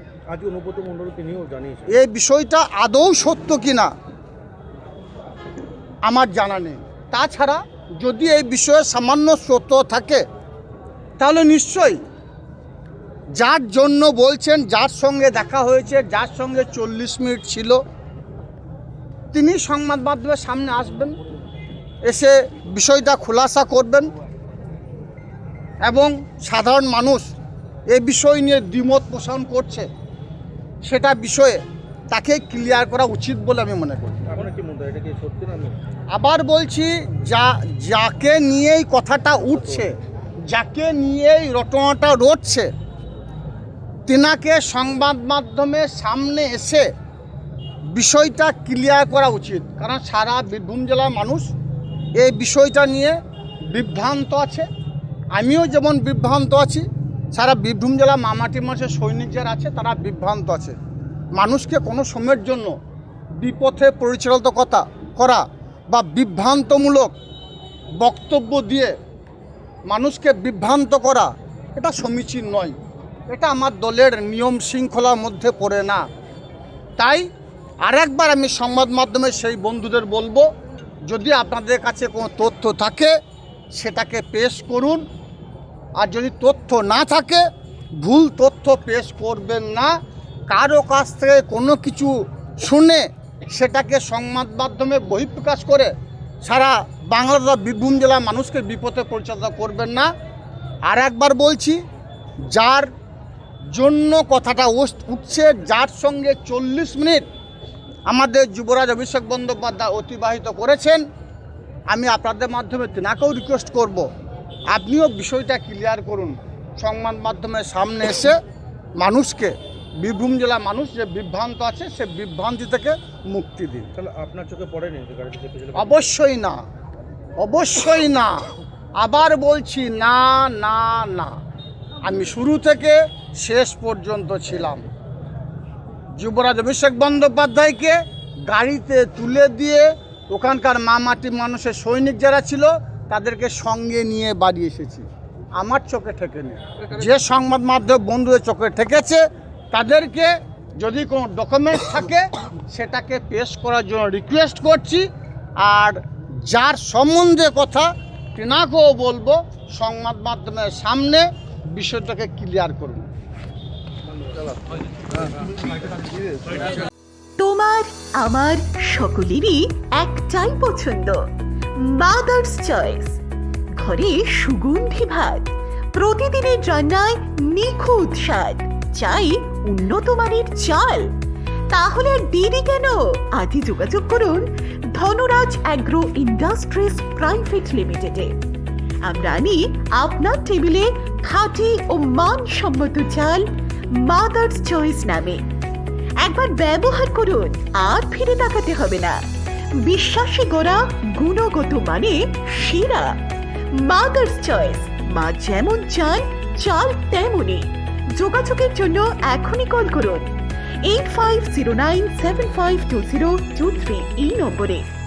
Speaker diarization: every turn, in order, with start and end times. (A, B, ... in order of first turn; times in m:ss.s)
0:00.3-0:01.9 A
0:01.9-0:03.9 B
0:06.0-0:10.2 B
0:11.2-0:12.0 B
0:13.4-0:17.8 B
0:19.3-0:21.1 B
0:22.0-0:24.1 B
0:25.8-0:27.3 B
0:27.9-0:29.9 B
0:30.8-0:34.2 B
0:34.2-0:35.8 A
0:36.1-0:39.9 B
0:39.6-0:39.8 A
0:40.5-0:42.7 B
0:44.1-0:46.9 B
0:47.9-0:51.5 B
0:52.2-0:53.2 B
0:53.7-0:54.6 B
0:55.3-1:00.8 B
1:01.3-1:02.7 B
1:03.4-1:07.1 B
1:08.0-1:08.9 B
1:09.9-1:12.7 B
1:13.3-1:16.0 B
1:17.0-1:17.2 B
1:17.8-1:20.4 B
1:21.1-1:23.1 B
1:23.8-1:25.0 B
1:26.0-1:27.4 B
1:28.0-1:29.9 B
1:30.5-1:35.9 B
1:36.4-1:40.1 B
1:40.9-1:41.8 B
1:42.5-1:42.9 B
1:43.7-1:47.2 B
1:48.1-1:51.0 B
1:51.9-1:54.0 B
1:54.7-1:58.4 B
1:59.0-2:03.9 B
2:04.0-2:06.0 A
2:05.8-2:06.6 B
2:07.4-2:08.4 B
2:09.0-2:11.4 B
2:12.0-2:14.8 B
2:16.2-2:25.0 B
2:25.6-2:35.1 B
2:35.6-2:43.1 B
2:44.2-2:44.4 A
2:45.1-2:46.7 A
2:47.4-2:51.2 C
2:51.8-2:53.2 C
2:53.8-3:01.1 C
3:01.7-3:08.3 C
3:09.0-3:13.4 C
3:14.0-3:15.4 C
3:16.2-3:19.2 C
3:19.8-3:23.1 C
3:23.8-3:30.3 C
3:30.8-3:34.9 C